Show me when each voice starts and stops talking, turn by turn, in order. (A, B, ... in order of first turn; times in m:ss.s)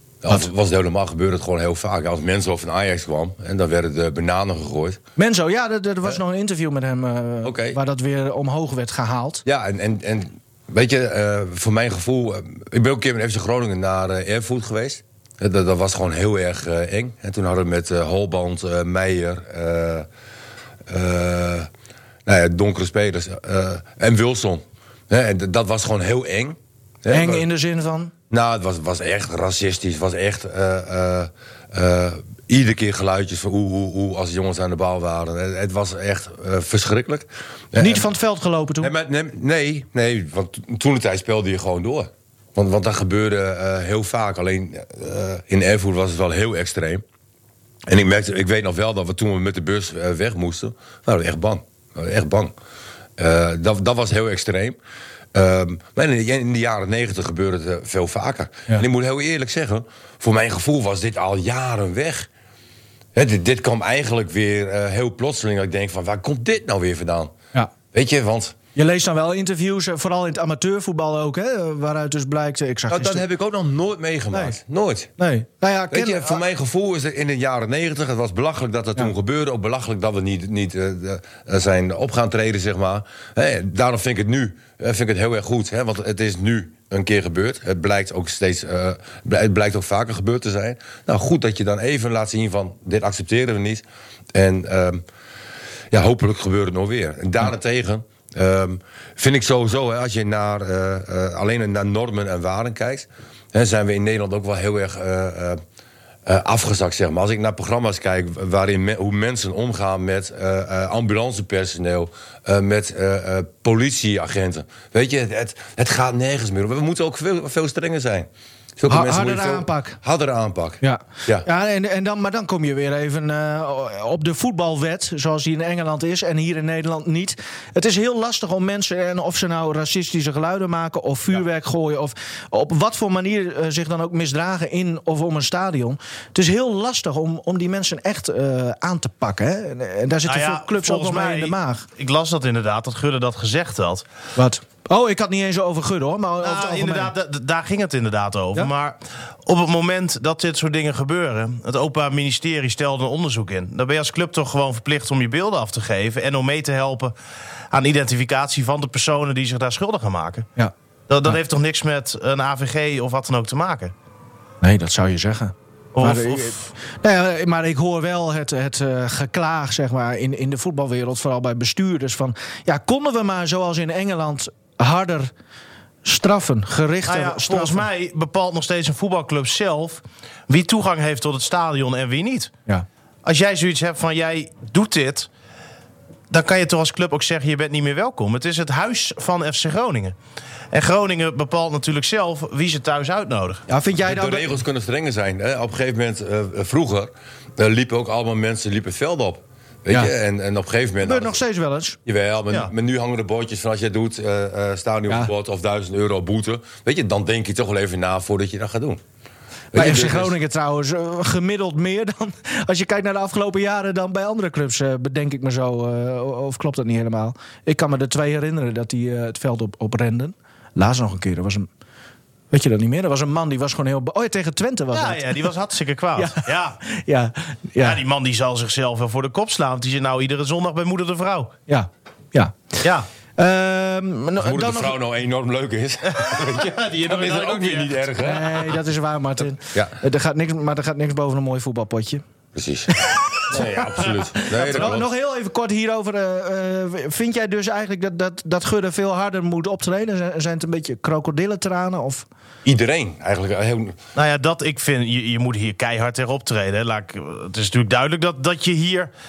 0:00.2-0:05.0 A
0:05.2-0:09.4 B
0:07.4-0:07.8 A
0:09.4-0:20.1 A
0:20.9-0:21.7 A
0:22.3-0:27.4 A
0:27.1-0:28.1 B
0:28.3-0:38.1 A
0:37.8-0:38.9 B
0:38.8-0:47.0 A
0:47.9-0:52.5 A
0:53.2-0:54.8 A
0:55.3-1:02.3 A
1:03.1-1:07.4 A
1:07.9-1:08.6 A
1:08.8-1:13.2 B
1:12.9-1:15.1 A
1:14.3-1:14.6 B
1:15.2-1:16.4 B
1:15.9-1:35.0 A
1:35.9-1:45.6 A
1:46.3-2:01.5 A
1:58.9-2:00.0 B
2:00.8-2:21.9 B
2:20.2-2:24.0 C
2:24.4-2:27.1 B
2:26.4-2:37.1 C
2:37.7-2:40.5 C
2:41.1-2:43.9 C
2:44.6-2:55.3 B
2:46.0-2:46.6 C
2:56.0-2:57.8 B
2:57.1-3:02.5 C
3:03.2-3:05.3 C
3:06.3-3:10.2 C
3:10.7-3:13.6 C
3:13.7-3:14.6 B
3:14.0-3:21.4 A
3:21.0-3:22.0 B
3:22.1-3:29.0 A
3:29.7-3:30.4 A
3:29.7-3:41.7 B
3:42.5-3:45.5 B
3:44.9-3:46.8 C
3:46.2-3:48.0 B
3:47.8-3:51.5 C
3:51.7-3:52.6 B
3:53.4-3:55.0 B
3:54.4-3:58.5 A
3:56.1-3:58.1 C
3:58.2-4:02.2 B
3:59.7-4:00.0 A
4:02.5-4:05.1 A
4:03.3-4:03.6 B
4:04.4-4:12.3 B
4:04.5-4:05.0 C
4:12.6-4:14.0 A
4:14.2-4:19.1 C